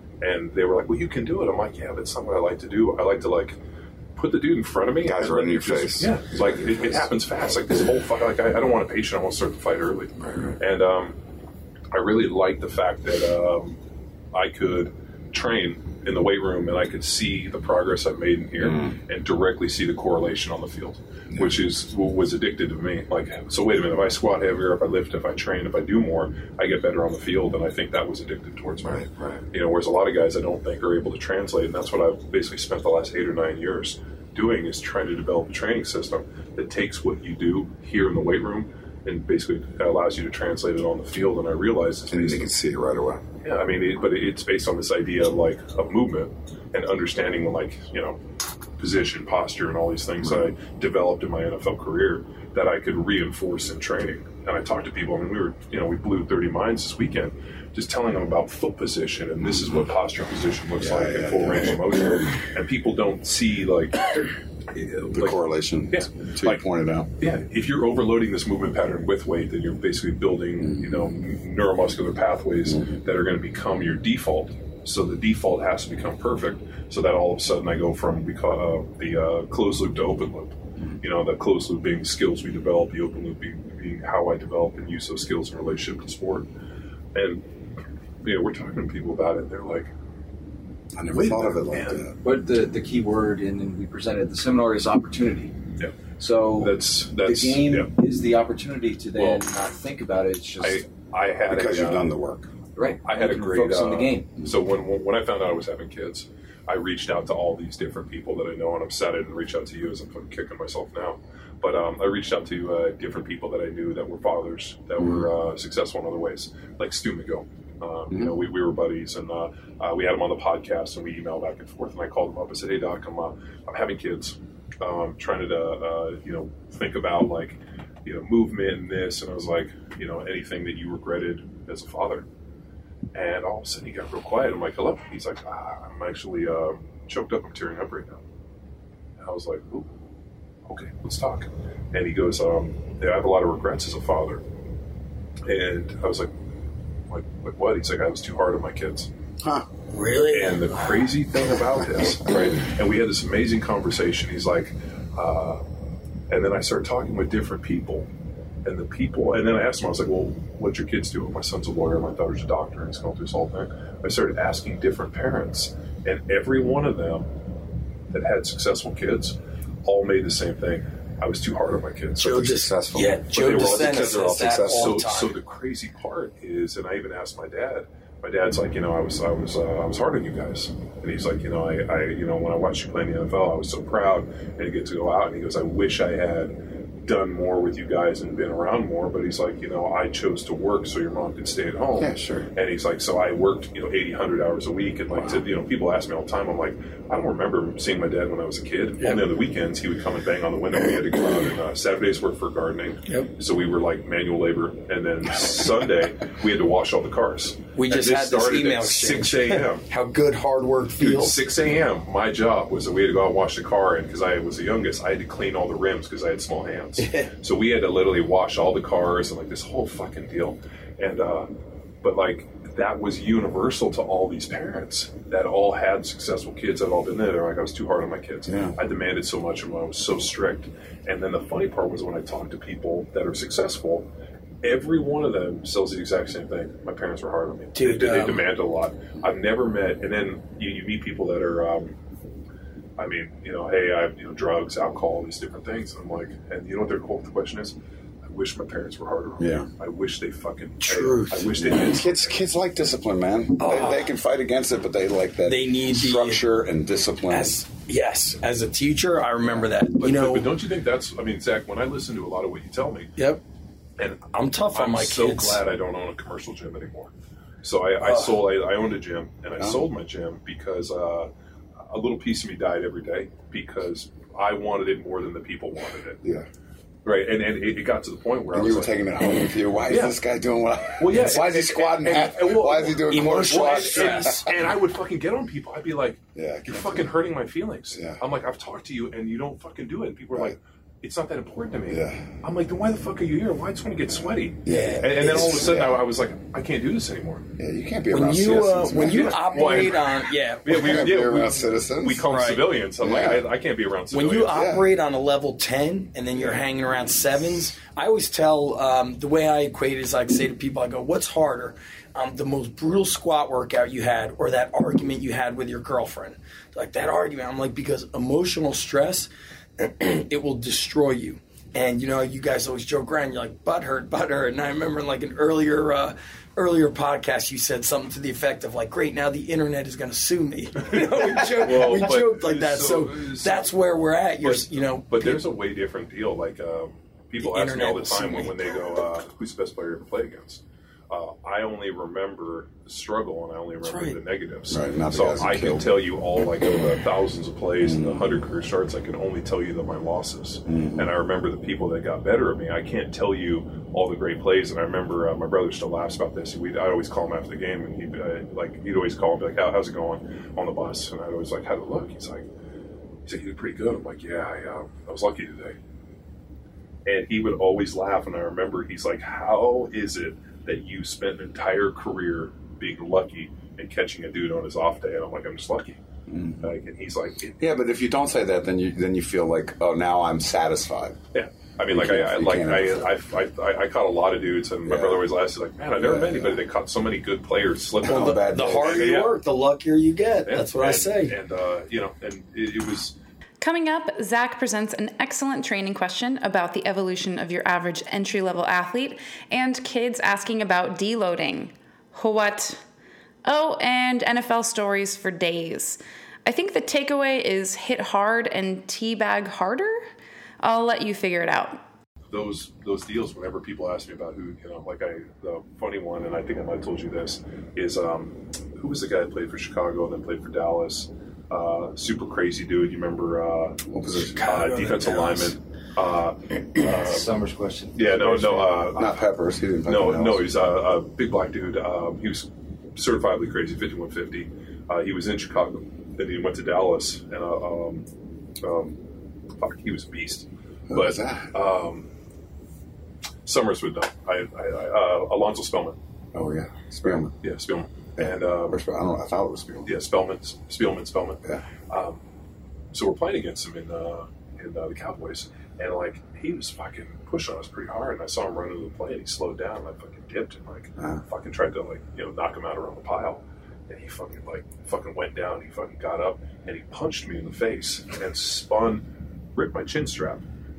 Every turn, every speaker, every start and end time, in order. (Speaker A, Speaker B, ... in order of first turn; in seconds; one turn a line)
Speaker A: 0.2-3.6
Speaker A: 4.2-11.2
Speaker B: 5.0-6.2
Speaker A: 11.9-13.8
Speaker A: 14.3-42.5
Speaker B: 29.0-29.4
Speaker B: 42.1-43.2
Speaker A: 43.4-48.2
Speaker A: 48.8-65.4
Speaker B: 60.8-61.8
Speaker B: 65.1-67.1
Speaker A: 65.9-66.6
Speaker A: 67.2-86.5
Speaker A: 87.1-87.5
Speaker A: 88.2-89.9
Speaker B: 90.9-92.2
Speaker A: 91.1-92.0
Speaker C: 92.2-95.5
Speaker C: 96.2-100.8
Speaker A: 96.6-97.9
Speaker A: 99.1-99.4
Speaker A: 100.6-102.1
Speaker B: 101.5-102.5
Speaker C: 102.8-104.3
Speaker A: 103.0-132.3
Speaker A: 133.1-138.2
Speaker A: 139.2-139.9
Speaker A: 140.7-144.4
Speaker A: 145.4-146.3
Speaker A: 147.1-149.1
Speaker B: 149.4-149.7
Speaker D: 149.9-151.0
Speaker A: 150.3-155.6
Speaker A: 156.3-158.1
Speaker A: 158.6-167.3
Speaker A: 168.1-172.6
Speaker D: 172.2-175.3
Speaker B: 172.4-175.1
Speaker A: 173.3-209.8
Speaker B: 192.0-192.5
Speaker D: 207.8-211.3
Speaker A: 211.0-221.5
Speaker D: 217.0-217.3
Speaker A: 222.0-234.1
Speaker B: 228.5-228.8
Speaker A: 234.6-241.9
Speaker D: 237.7-238.4
Speaker A: 243.0-247.7
Speaker A: 248.2-252.2
Speaker B: 249.4-249.7
Speaker B: 250.8-257.6
Speaker D: 253.6-254.1
Speaker D: 255.4-256.4
Speaker D: 257.3-260.5
Speaker A: 260.0-263.1
Speaker A: 264.0-267.1
Speaker D: 264.3-265.6
Speaker A: 267.6-271.3
Speaker D: 268.0-268.4
Speaker A: 271.8-276.2
Speaker B: 276.2-276.5
Speaker A: 277.0-279.1
Speaker B: 278.5-284.6
Speaker A: 279.8-280.2
Speaker A: 281.0-297.5
Speaker D: 283.1-284.5
Speaker B: 286.3-287.1
Speaker B: 287.9-288.2
Speaker B: 291.9-292.4
Speaker B: 294.6-296.1
Speaker D: 294.6-295.7
Speaker B: 297.6-299.9
Speaker D: 298.1-301.2
Speaker A: 299.0-304.6
Speaker B: 300.7-302.3
Speaker D: 302.2-302.7
Speaker B: 303.0-303.5
Speaker D: 304.1-335.4
Speaker B: 304.5-304.8
Speaker A: 330.8-333.7
Speaker A: 334.4-362.5
Speaker D: 337.4-338.7
Speaker D: 343.8-344.2
Speaker B: 344.7-346.1
Speaker B: 347.8-348.4
Speaker B: 350.7-351.1
Speaker A: 363.2-365.8
Speaker A: 367.1-376.0
Speaker B: 376.3-376.7
Speaker A: 376.6-377.7
Speaker B: 377.6-381.2
Speaker A: 381.3-389.4
Speaker B: 381.9-383.1
Speaker B: 384.9-385.3
Speaker B: 386.0-386.6
Speaker B: 388.0-389.1
Speaker D: 388.1-391.4
Speaker A: 390.4-393.1
Speaker E: 393.6-402.8
Speaker E: 403.4-410.0
Speaker E: 410.6-411.8
Speaker A: 412.3-427.3
Speaker B: 423.9-424.4
Speaker D: 424.4-425.5
Speaker C: 426.9-428.6
Speaker A: 427.9-429.3
Speaker B: 428.9-430.5
Speaker A: 429.8-438.1
Speaker A: 438.6-439.0
Speaker A: 439.6-442.1
Speaker B: 440.9-441.5
Speaker A: 443.4-446.0
Speaker B: 446.3-447.3
Speaker A: 447.0-448.8
Speaker B: 448.2-449.9
Speaker A: 449.8-452.2
Speaker A: 452.9-470.4